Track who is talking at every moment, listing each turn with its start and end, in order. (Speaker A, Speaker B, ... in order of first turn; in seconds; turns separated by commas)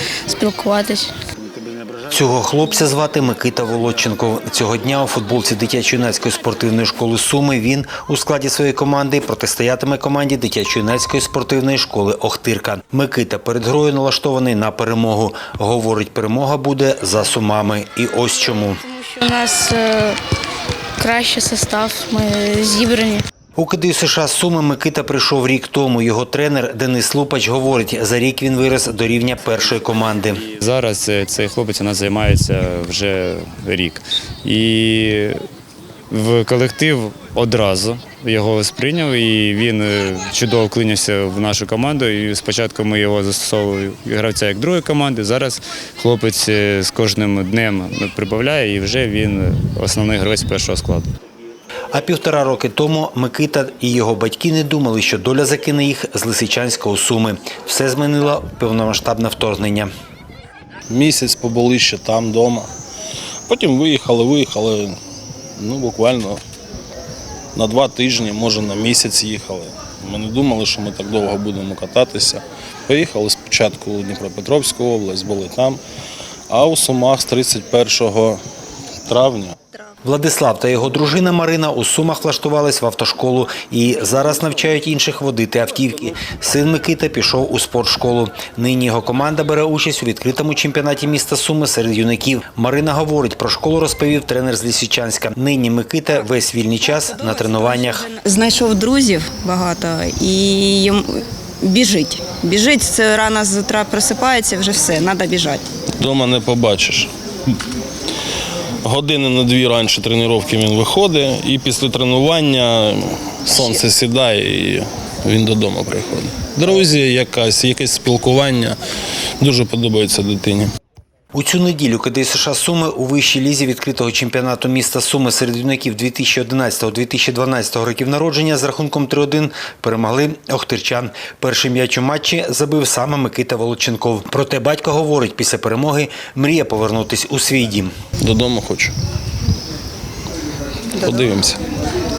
Speaker A: 0.3-1.1, Speaker B: 1.5-18.8, Speaker A: 18.7-20.2, Speaker A: 21.0-23.2, Speaker B: 23.6-30.4, Speaker C: 30.5-35.4, Speaker C: 36.1-51.1, Speaker B: 51.9-59.9, Speaker D: 60.9-62.7, Speaker D: 63.5-65.0, Speaker D: 65.6-66.4, Speaker D: 67.6-75.8, Speaker D: 76.5-78.4, Speaker D: 79.1-79.6, Speaker B: 80.0-98.1, Speaker E: 96.8-105.7, Speaker D: 106.0-107.1, Speaker D: 108.8-118.8, Speaker E: 113.5-113.8, Speaker D: 119.4-120.7, Speaker B: 121.3-137.9, Speaker D: 138.2-138.9, Speaker D: 140.9-141.6